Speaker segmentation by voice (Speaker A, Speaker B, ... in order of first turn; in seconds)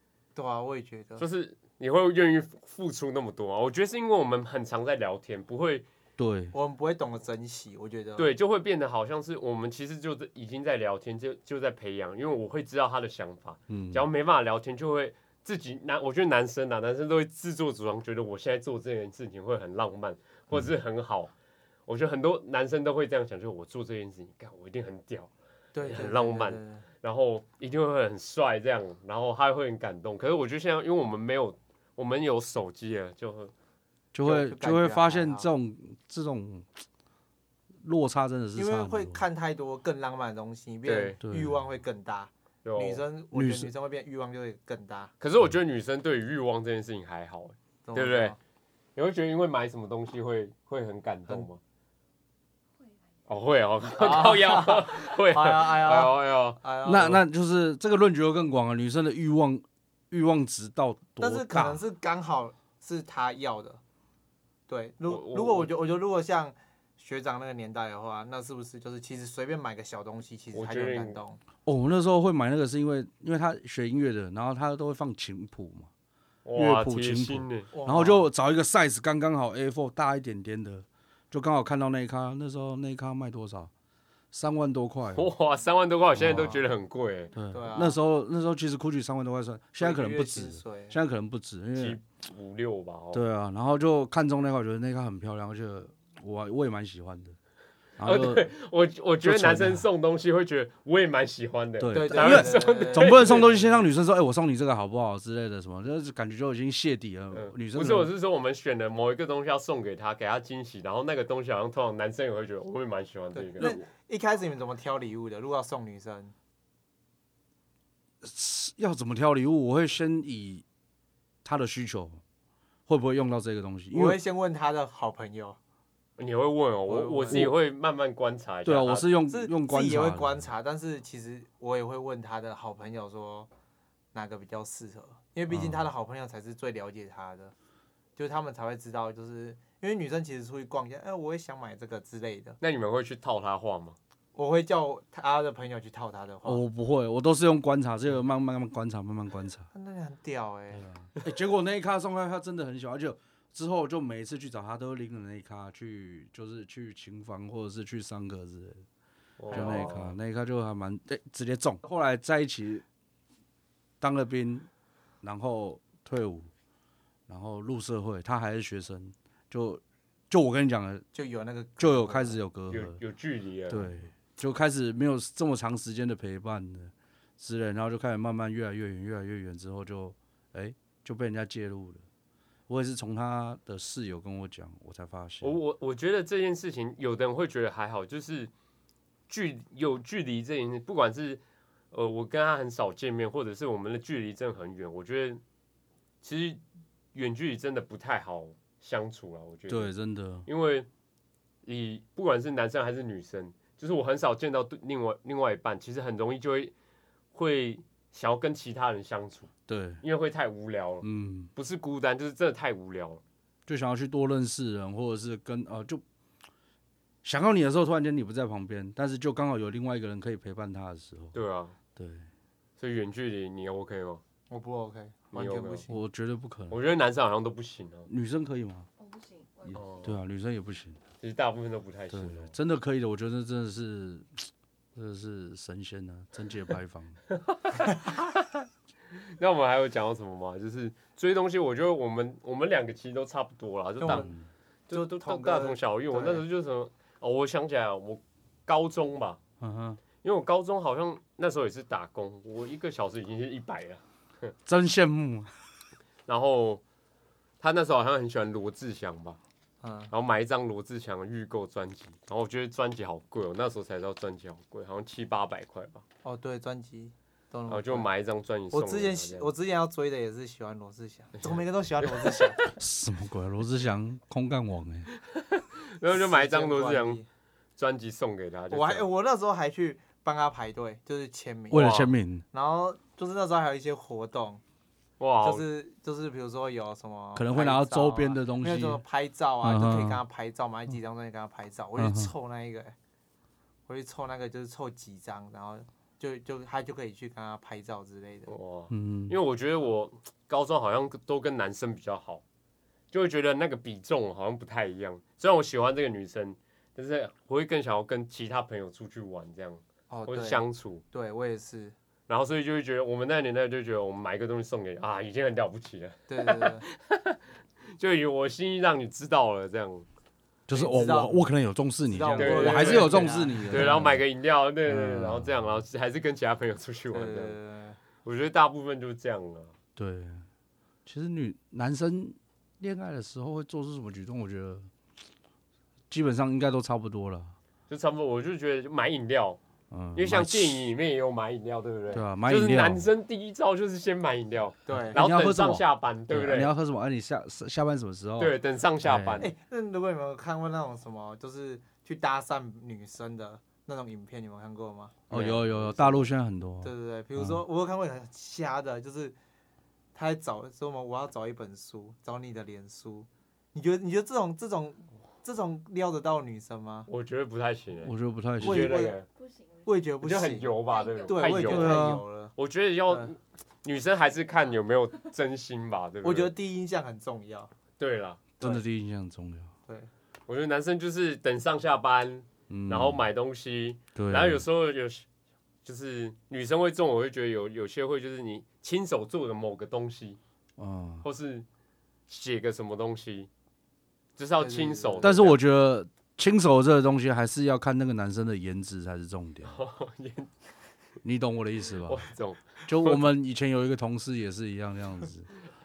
Speaker A: 0.3-1.2, 6.5-8.3, 25.7-26.8, 34.2-35.5, 38.5-45.1, 47.9-48.4, 53.9-57.2, 61.2-63.8, 64.7-71.4, 77.7-78.3, 87.5-88.0, 89.8-91.0, 101.9-103.6, 113.3-116.3, 123.9-125.6, 126.9-127.5, 129.3-133.5, 134.1-137.5, 138.2-142.6, 144.3-146.6, 149.7-150.9, 171.1-172.4, 224.5-226.0, 244.0-244.3, 244.9-246.4, 259.8-260.1, 266.2-268.1, 268.7-272.6, 276.1-277.2, 278.7-281.9, 282.5-284.6, 285.4-292.9, 293.9-298.5, 310.1-311.9, 316.3-316.9, 320.7-321.4, 322.1-323.9, 327.1-328.0, 344.9-345.2, 349.4-356.3, 356.8-359.4, 360.1-367.1, 368.6-369.2, 369.8-372.5, 376.2-377.7, 394.6-395.4
Speaker B: 1.2-5.9, 8.2-21.3, 21.9-33.5, 40.8-41.2, 42.6-43.0, 45.2-48.4, 49.0-51.6, 53.3-56.6, 65.1-65.7, 70.5-71.2, 76.4-77.7, 85.1-87.3, 91.8-93.2, 98.0-103.8, 107.3-113.8, 126.2-129.1, 142.6-144.0, 159.4-160.1, 172.7-173.9, 185.4-188.5, 189.3-191.4, 191.9-195.4, 196.2-196.6, 197.1-199.9, 200.4-200.9, 201.6-206.7, 207.3-209.5, 210.0-213.2, 221.3-221.8, 222.8-224.2, 225.3-225.8, 226.7-228.1, 229.7-230.1, 231.2-232.5, 237.3-238.4, 239.1-244.3, 244.9-249.4, 250.2-254.5, 256.3-256.8, 257.6-259.4, 260.1-266.0, 267.7-269.5, 271.4-272.3, 275.1-277.2, 277.8-279.1, 281.7-282.1, 285.2-285.6, 298.5-302.4, 303.1-311.0, 312.3-320.1, 322.3-327.6, 328.2-329.7, 337.9-339.6, 340.1-346.7, 348.4-349.5, 367.1-369.3, 370.2-376.5, 378.0-378.5, 380.5-385.2, 385.8-390.4, 391.2-391.6, 392.3-393.5, 394.4-395.6, 399.6-400.5, 402.0-403.3
Speaker C: 6.2-6.5, 13.7-14.1, 34.1-36.7, 37.8-39.2, 41.2-41.5, 43.3-43.7, 56.8-61.8, 71.7-75.9, 76.5-83.7, 84.3-85.3, 86.2-86.6, 87.3-92.0, 93.1-97.3, 98.0-98.5, 99.2-99.8, 101.8-108.1, 118.2-120.6, 121.4-122.2, 122.9-124.2, 128.6-130.5, 135.5-135.8, 146.4-149.7, 150.9-158.8, 159.5-162.8, 164.0-164.7, 165.2-166.5, 167.3-171.0, 171.8-173.0, 173.7-182.0, 182.7-185.6, 199.7-200.5, 209.7-210.0, 211.0-211.5, 213.7-216.0, 217.2-221.3, 221.9-222.2, 225.9-226.8, 228.1-228.9, 229.7-231.0, 232.1-237.2, 244.0-244.4, 249.6-250.0, 254.7-255.5, 272.7-275.1, 281.7-282.4, 287.3-289.0, 289.6-290.2, 292.0-292.3, 298.9-299.4, 320.7-324.2, 324.9-325.8, 329.9-330.4, 331.1-334.9, 336.1-337.5, 339.9-340.8, 342.1-343.1, 345.0-349.5, 355.3-357.6, 368.0-369.0, 371.6-372.2, 378.6-379.7, 382.7-383.2, 384.1-384.6, 390.8-391.2, 395.2-399.8, 401.2-402.2, 402.9-405.5
Speaker D: 229.0-230.1, 369.3-369.9, 370.8-371.8